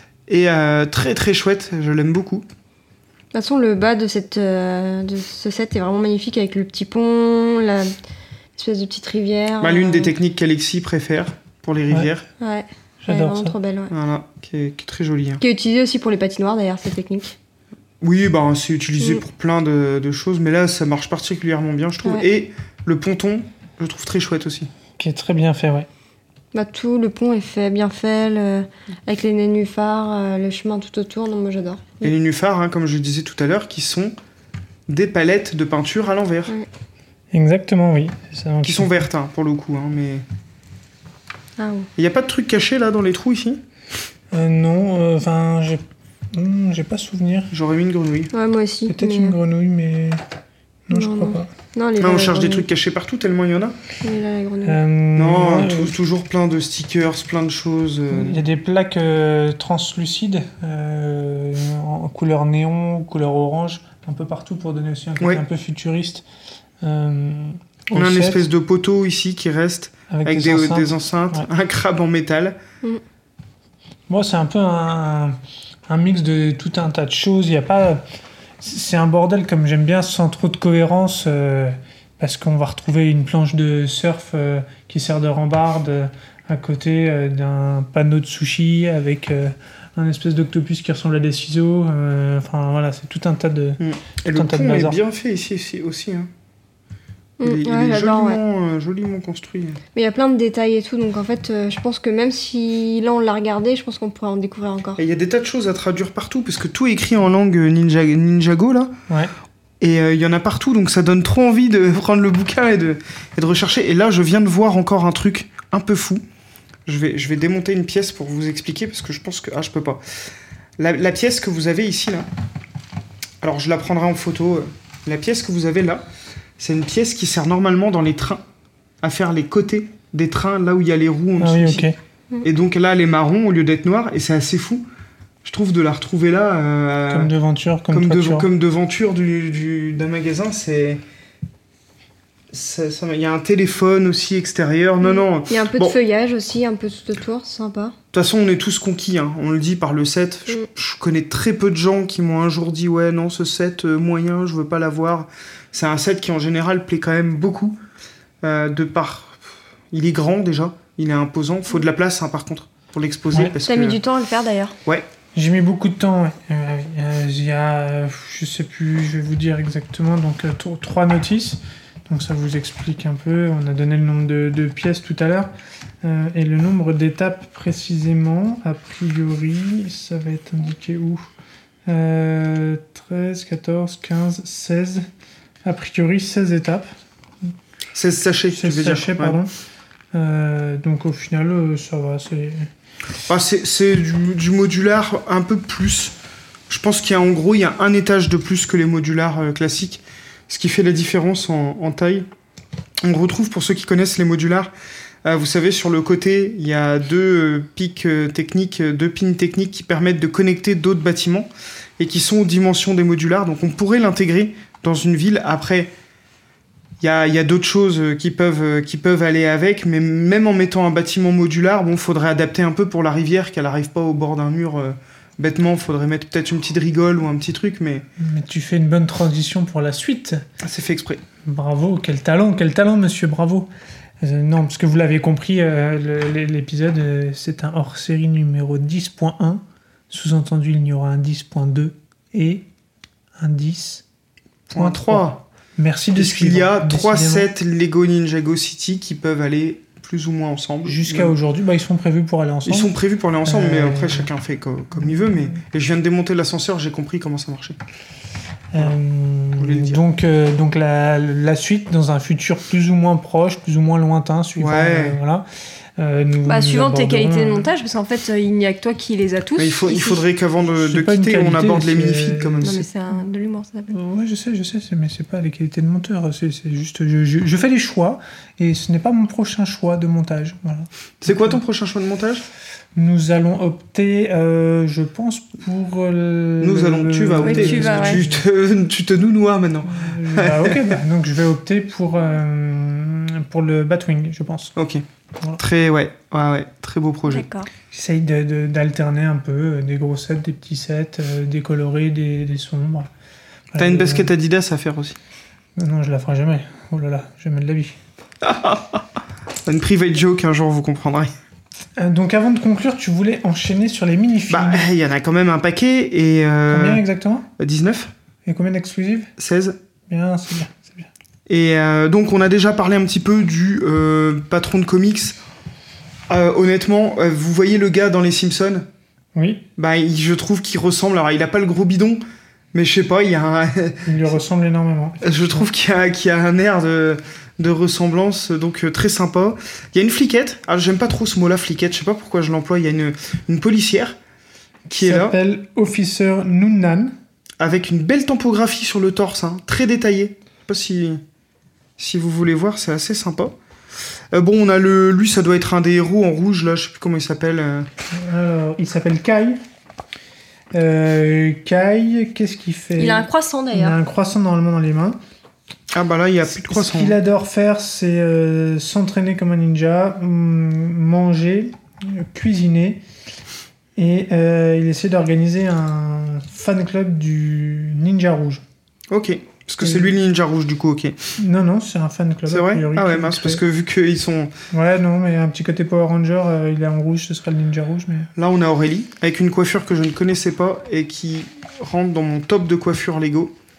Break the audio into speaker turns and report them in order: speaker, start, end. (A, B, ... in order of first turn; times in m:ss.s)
0:00.3-0:02.4 A
0:03.3-0:08.0 B
0:08.6-0:10.1 B
0:09.6-0:12.2 A
0:12.4-0:13.9 B
0:13.0-0:13.5 C
0:13.9-0:15.4 A
0:15.4-0:17.4 B
0:18.0-0:24.7 A
0:25.0-0:25.9 C
0:26.5-0:32.1 B
0:32.0-0:34.2 A
0:34.9-0:36.5 A
0:37.3-0:39.0 C
0:38.6-0:40.2 A
0:41.6-0:41.9 B
0:42.0-0:43.6 A
0:44.3-0:47.5 C
0:47.5-0:48.3 A
0:48.3-0:49.4 B
0:48.9-0:50.2 C
0:50.9-0:51.5 C
0:50.9-0:52.7 B
0:52.0-0:53.8 A
0:54.0-0:54.8 B
0:54.6-0:55.9 C
0:55.2-0:58.4 A
0:58.1-1:06.2 C
1:06.8-1:08.4 C
1:07.9-1:12.6 A
1:10.1-1:11.5 C
1:14.1-1:15.4 C
1:15.9-1:18.0 C
1:18.6-1:35.0 C
1:33.8-1:36.3 A
1:37.4-1:38.4 B
1:37.4-1:39.8 A
1:39.9-1:45.0 B
1:45.0-1:48.9 A
1:49.8-1:56.2 A
1:56.8-2:00.0 A
2:00.8-2:02.3 A
2:03.4-2:06.0 A
2:06.6-2:08.4 A
2:09.0-2:11.9 A
2:11.4-2:12.0 C
2:12.4-2:14.8 A
2:15.4-2:17.3 A
2:17.1-2:18.5 C
2:17.9-2:21.0 A
2:22.5-2:26.0 A
2:25.0-2:27.9 B
2:28.1-2:37.8 A
2:38.4-2:44.0 A
2:43.6-2:44.7 B
2:45.3-2:55.5 C
2:56.0-3:01.3 C
3:01.9-3:05.1 C
3:05.6-3:06.9 C
3:07.9-3:09.4 A
3:08.5-3:09.5 C
3:10.1-3:12.7 C
3:13.3-3:16.2 A
3:16.7-3:22.3 A
3:23.0-3:24.7 A
3:25.2-3:35.9 A
3:37.0-3:48.0 A
3:48.2-3:50.4 C
3:50.6-3:51.2 A
3:51.4-3:53.7 C
3:54.2-4:02.6 C
4:03.4-4:04.0 C
4:04.7-4:05.4 A
4:04.7-4:07.5 C
4:06.1-4:11.3 A
4:10.8-4:12.9 C
4:12.6-4:17.8 A
4:13.4-4:14.3 C
4:15.0-4:15.6 C
4:18.7-4:25.4 C
4:19.6-4:20.0 A
4:24.6-4:25.2 A
4:26.0-4:27.7 C
4:26.4-4:30.2 B
4:29.6-4:32.8 A
4:30.7-4:32.8 C
4:32.6-4:33.9 B
4:33.9-4:41.6 C
4:41.2-4:42.4 A
4:43.0-4:48.4 C
4:46.6-4:51.0 A
4:47.4-4:48.2 B
4:49.8-4:54.7 C
4:54.8-4:55.0 A
4:55.6-4:57.5 A
4:57.3-4:57.7 B
4:57.9-5:03.1 C
5:03.7-5:04.3 C
5:03.8-5:05.2 A
5:05.8-5:08.0 C
5:08.4-5:09.0 A
5:09.6-5:11.3 A
5:12.0-5:14.9 C
5:14.5-5:17.0 A
5:16.7-5:17.5 C
5:17.6-5:18.1 A
5:18.4-5:19.3 C
5:19.4-5:19.8 A
5:20.1-5:21.1 C
5:21.5-5:25.4 A
5:26.3-5:28.9 A
5:29.3-5:29.6 C
5:29.8-5:32.2 A
5:32.7-5:34.3 A
5:34.0-5:35.6 C
5:35.2-5:44.2 A
5:44.9-5:45.4 A
5:45.0-5:47.1 C
5:47.6-5:51.2 A
5:52.0-5:53.6 A
5:54.3-5:57.9 A
5:58.1-5:59.6 C
6:00.7-6:05.2 C
6:03.0-6:04.0 B
6:05.9-6:07.2 A
6:06.5-6:13.0 C
6:14.0-6:18.6 C
6:19.1-6:21.2 A
6:19.8-6:20.1 C
6:21.4-6:23.6 C
6:22.5-6:24.5 A
6:24.7-6:28.3 C
6:28.4-6:33.5 A